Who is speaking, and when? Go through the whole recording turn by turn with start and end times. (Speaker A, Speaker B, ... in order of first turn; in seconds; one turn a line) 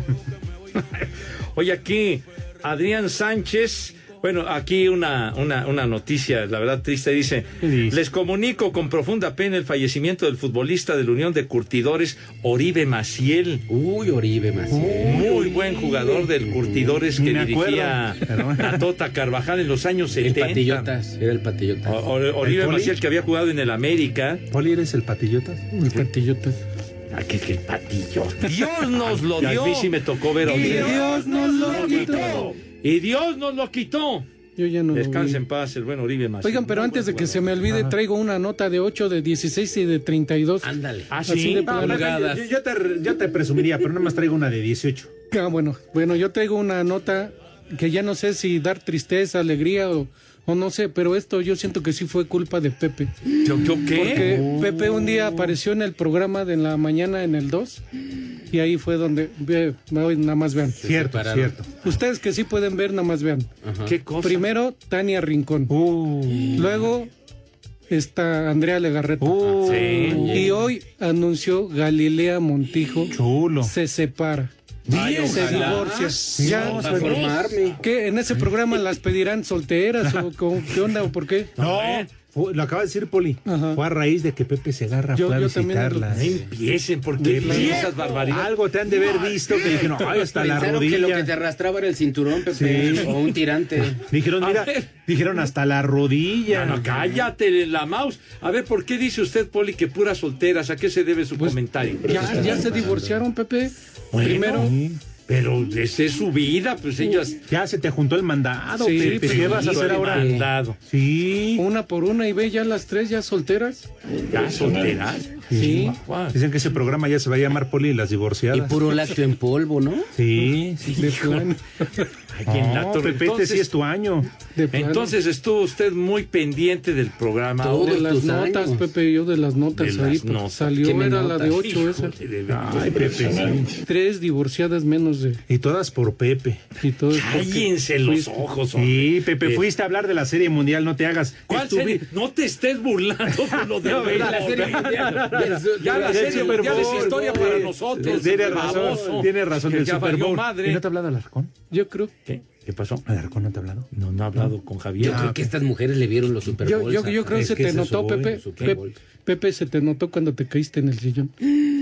Speaker A: 1.0-13.6
Speaker B: 7.6-8.0
Speaker C: 13.7-17.0
Speaker B: 14.7-15.3
Speaker A: 15.0-20.9
Speaker B: 17.1-18.8
Speaker C: 20.2-22.0
Speaker A: 21.8-24.4
Speaker B: 22.4-22.9
Speaker B: 24.5-25.7
Speaker D: 25.7-26.6
Speaker A: 27.1-34.2
Speaker B: 29.3-29.8
Speaker D: 30.4-32.5
Speaker B: 30.5-30.8
Speaker D: 34.5-35.4
Speaker A: 34.9-37.6
Speaker D: 36.4-40.7
Speaker B: 37.7-37.9
Speaker C: 40.6-41.1
Speaker A: 41.1-42.0
Speaker D: 41.2-42.1
Speaker B: 41.6-45.1
Speaker C: 41.7-42.5
Speaker D: 45.3-53.1
Speaker A: 53.4-54.5
Speaker D: 53.9-57.8
Speaker B: 54.1-55.5
Speaker D: 58.5-60.8
Speaker C: 60.8-61.5
Speaker B: 60.8-61.7
Speaker D: 61.8-63.5
Speaker C: 63.6-63.9
Speaker A: 63.8-64.5
Speaker D: 64.2-65.7
Speaker B: 65.7-66.8
Speaker D: 66.5-67.1
Speaker D: 67.9-74.5
Speaker B: 69.2-70.4
Speaker A: 69.6-70.2
Speaker C: 70.0-70.6
Speaker B: 73.1-73.7
Speaker C: 74.9-77.8
Speaker A: 74.9-75.8
Speaker D: 75.1-77.2
Speaker B: 75.2-77.4
Speaker A: 76.8-77.3
Speaker D: 77.8-81.5
Speaker B: 80.0-80.3
Speaker A: 81.6-82.1
Speaker B: 81.6-86.4
Speaker D: 83.5-83.8
Speaker D: 85.1-86.2
Speaker A: 86.1-88.5
Speaker D: 87.2-87.9
Speaker B: 87.4-91.3
Speaker C: 90.2-94.0
Speaker B: 92.5-93.2
Speaker B: 94.1-96.8
Speaker A: 94.4-94.9
Speaker A: 96.5-102.9
Speaker D: 101.4-104.7
Speaker C: 102.2-102.8
Speaker A: 104.1-104.7
Speaker B: 104.5-105.0
Speaker A: 105.3-107.4
Speaker B: 107.5-110.3
Speaker D: 108.8-109.6
Speaker A: 109.0-110.8
Speaker C: 109.4-110.5
Speaker B: 110.8-111.6
Speaker D: 111.6-113.9
Speaker A: 114.3-116.4
Speaker B: 115.5-118.8
Speaker D: 115.5-116.0
Speaker C: 118.5-120.1
Speaker B: 120.1-121.1
Speaker D: 121.0-121.6
Speaker A: 122.3-123.7
Speaker B: 122.5-124.3
Speaker D: 124.5-125.1
Speaker A: 124.7-128.1
Speaker C: 127.6-128.9
Speaker D: 127.8-132.1
Speaker A: 129.8-130.9
Speaker C: 130.8-131.6
Speaker A: 131.6-133.6
Speaker B: 132.5-133.7
Speaker D: 133.8-135.4
Speaker B: 135.5-136.6
Speaker D: 136.8-138.3
Speaker A: 137.1-139.6
Speaker B: 138.7-142.0
Speaker A: 141.5-150.9
Speaker C: 143.8-149.1
Speaker B: 143.9-151.5
Speaker D: 151.7-152.1
Speaker A: 152.2-153.0
Speaker B: 153.1-154.5
Speaker A: 153.9-155.3
Speaker C: 155.0-157.4
Speaker B: 155.0-155.4
Speaker D: 156.6-161.3
Speaker B: 157.3-158.4
Speaker C: 158.4-158.9